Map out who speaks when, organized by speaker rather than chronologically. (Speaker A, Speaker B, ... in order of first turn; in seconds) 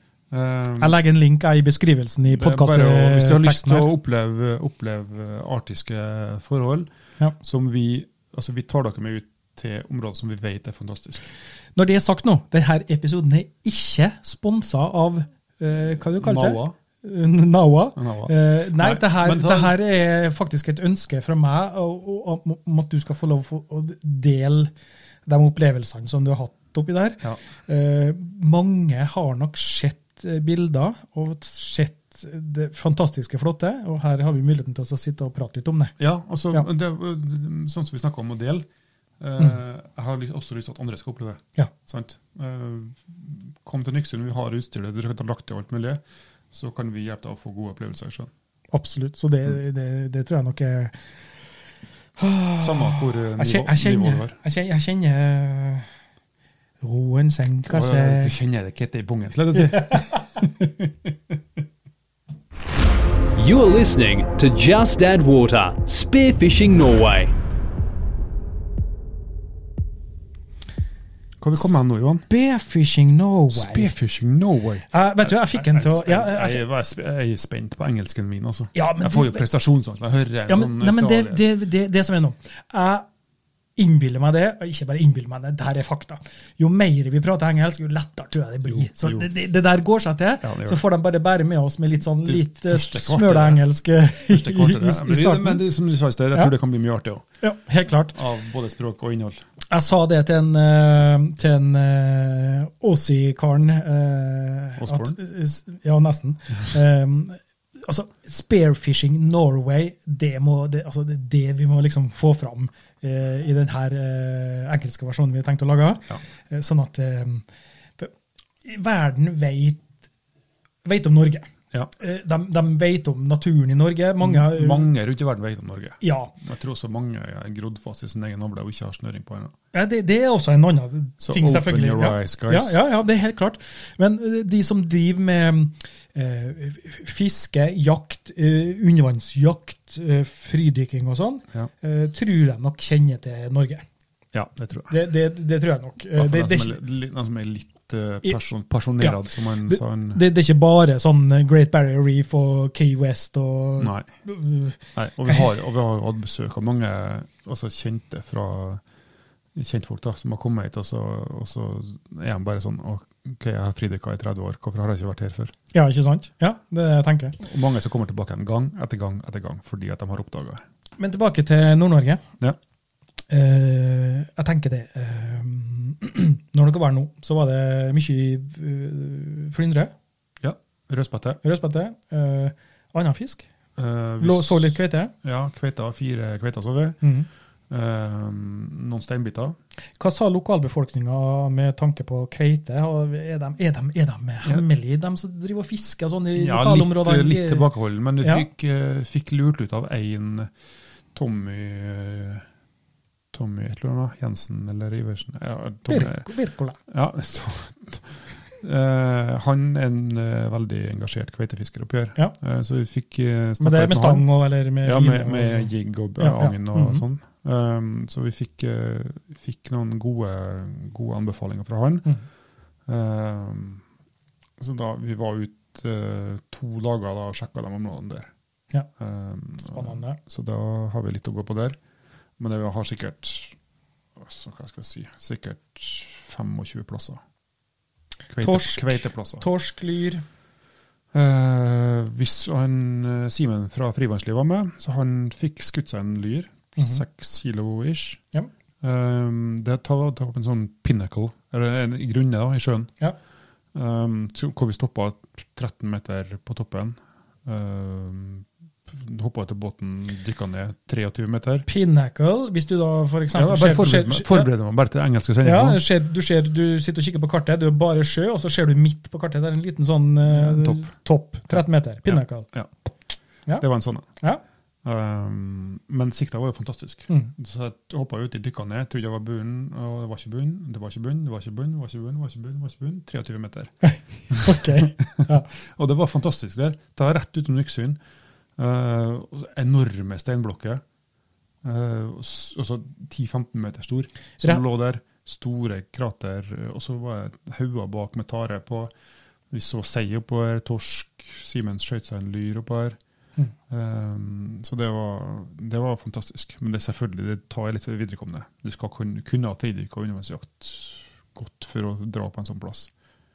Speaker A: 0.3-1.0, 2.2-6.9, 7.4-11.2, 16.2-16.8, 18.0-19.7, 36.0-38.6, 39.2-48.3, 52.6-54.4, 57.6-61.4, 71.4-72.3, 73.5-81.4, 88.6-89.3, 90.4-90.8, 92.2-93.6, 94.3-97.2, 98.1-99.4, 104.8-105.2, 124.2-129.5, 131.2-132.8, 144.3-144.9, 146.1-150.2, 153.8-154.1, 154.9-158.8, 159.5-165.5, 167.4-170.6, 180.4-181.4, 183.8-187.0, 187.7-189.6, 196.3-200.5, 201.1-202.4, 203.3-206.3, 206.9-214.3, 214.8-222.1, 222.9-223.8, 224.6-228.3, 229.0-231.8, 232.4-233.6, 234.2-237.2, 238.3-239.4, 241.1-248.2, 248.8-252.9, 253.7-261.7, 263.3-265.8, 270.3-270.9, 271.5-272.7, 273.6-274.1, 274.8-283.7, 284.3-288.0, 288.6-290.8, 291.6-298.9, 299.5-303.0, 303.7-312.9
Speaker B: 0.8-3.9, 11.8-24.7, 25.2-35.9, 48.7-50.9, 52.2-55.9, 56.8-58.3, 59.7-60.3, 72.3-73.9, 74.9-76.6, 78.7-79.4, 80.5-83.0, 83.8-95.6, 97.4-98.2, 99.7-117.4, 118.6-119.9, 120.8-124.9, 126.0-126.3, 129.7-143.8, 144.9-146.8, 149.0-155.4, 165.7-167.4, 171.0-172.2, 173.3-179.9, 181.4-183.4, 184.2-185.1, 187.0-187.3, 190.0-197.7, 198.2-198.5, 205.9-206.8, 213.6-217.0, 229.6-230.2, 238.4-240.2, 261.7-264.5, 265.4-272.5, 283.8-285.5
Speaker C: 63.4-67.3